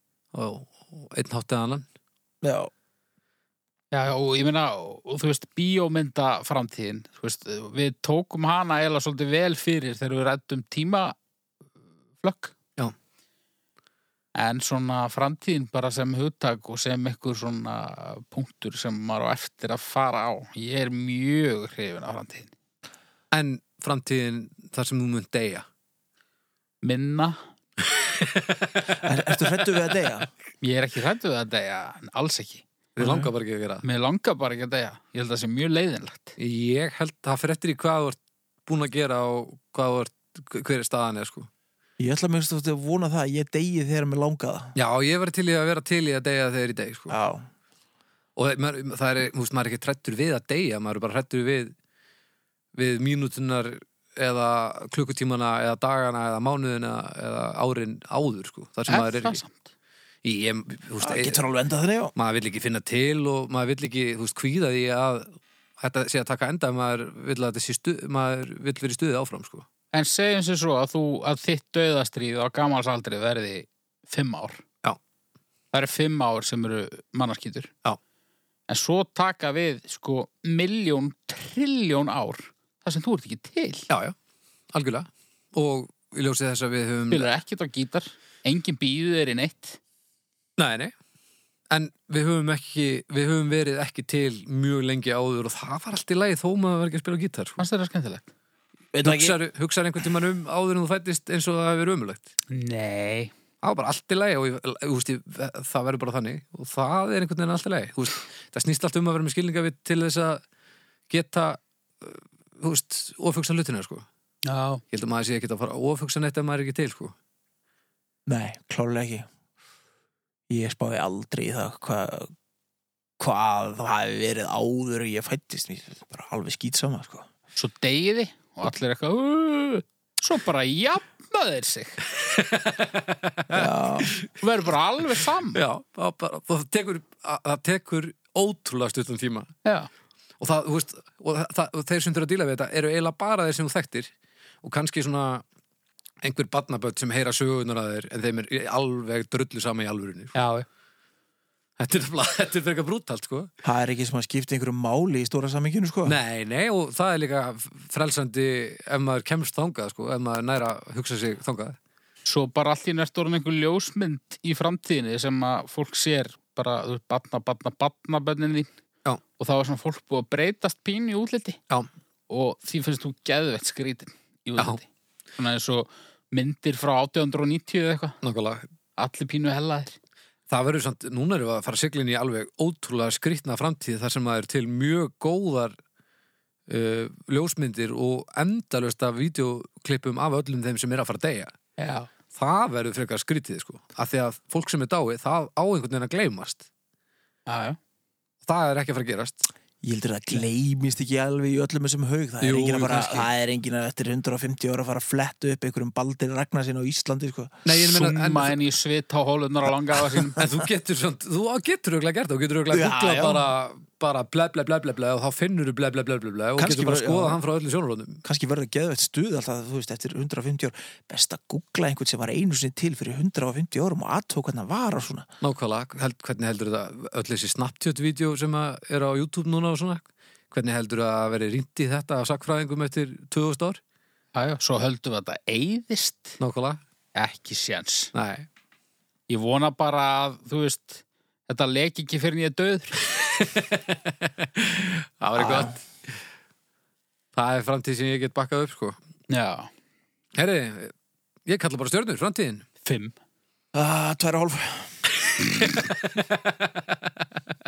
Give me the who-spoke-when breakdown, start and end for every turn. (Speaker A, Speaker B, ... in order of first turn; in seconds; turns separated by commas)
Speaker A: 0.3-1.9, Speaker B: 2.4-2.7, Speaker C: 3.9-11.1, Speaker C: 12.2-12.5, Speaker C: 14.3-22.5, Speaker A: 23.3-25.6, Speaker C: 26.8-27.4, Speaker A: 27.9-29.0, Speaker B: 28.9-30.3, Speaker C: 30.6-32.6, Speaker A: 33.0-33.8, Speaker B: 33.0-33.3, Speaker C: 33.8-36.3, Speaker A: 36.4-41.5, Speaker B: 42.0-44.7, Speaker A: 44.7-47.1, Speaker B: 47.1-47.5, Speaker A: 48.4-51.7, Speaker A: 52.7-59.4, Speaker C: 58.9-59.7, Speaker A: 60.2-61.4, Speaker B: 61.0-62.1, Speaker A: 62.1-69.7, Speaker C: 69.9-74.6, Speaker C: 75.7-77.7, Speaker C: 78.7-83.9, Speaker A: 83.9-84.1, Speaker A: 84.7-87.3, Speaker C: 87.1-89.8, Speaker A: 90.6-90.9, Speaker A: 91.7-97.6, Speaker C: 97.6-98.3, Speaker B: 98.9-99.4, Speaker A: 99.0-102.3, Speaker C: 102.5-103.3, Speaker A: 103.6-110.4, Speaker A: 111.1-114.0, Speaker C: 114.5-114.8, Speaker A: 114.9-117.1, Speaker B: 118.3-119.3, Speaker B: 120.5-122.3, Speaker B: 123.2-127.3, Speaker C: 127.5-132.0, Speaker A: 132.1-134.3, Speaker B: 133.5-134.1, Speaker C: 134.4-135.6, Speaker A: 135.5-139.5, Speaker C: 139.6-139.9, Speaker A: 140.4-144.1, Speaker A: 144.6-145.4, Speaker A: 146.2-150.3, Speaker C: 150.3-150.7, Speaker A: 151.8-153.5, Speaker B: 153.6-156.2, Speaker A: 156.1-161.8, Speaker C: 162.2-168.7, Speaker C: 169.4-171.6, Speaker C: 172.3-178.2, Speaker A: 178.2-178.7, Speaker C: 179.0-179.9, Speaker A: 180.5-185.8, Speaker A: 186.7-191.5, Speaker C: 191.8-192.1, Speaker A: 192.3-196.7, Speaker C: 197.5-197.8, Speaker A: 198.4-199.5, Speaker B: 199.8-207.6, Speaker A: 202.4-203.3, Speaker A: 207.6-208.6, Speaker C: 207.8-210.4, Speaker A: 210.3-218.2, Speaker B: 212.7-213.5, Speaker B: 216.6-217.4, Speaker B: 218.2-225.3, Speaker A: 225.4-233.8, Speaker C: 234.3-236.4, Speaker A: 236.4-236.8, Speaker C: 237.1-238.1, Speaker A: 238.1-238.5, Speaker C: 239.3-243.0, Speaker A: 243.2-245.8, Speaker B: 245.3-245.8, Speaker A: 247.3-249.0, Speaker C: 249.3-249.7, Speaker A: 250.3-250.9, Speaker A: 251.4-252.7, Speaker C: 252.8-253.1, Speaker B: 253.7-255.0, Speaker A: 255.3-257.1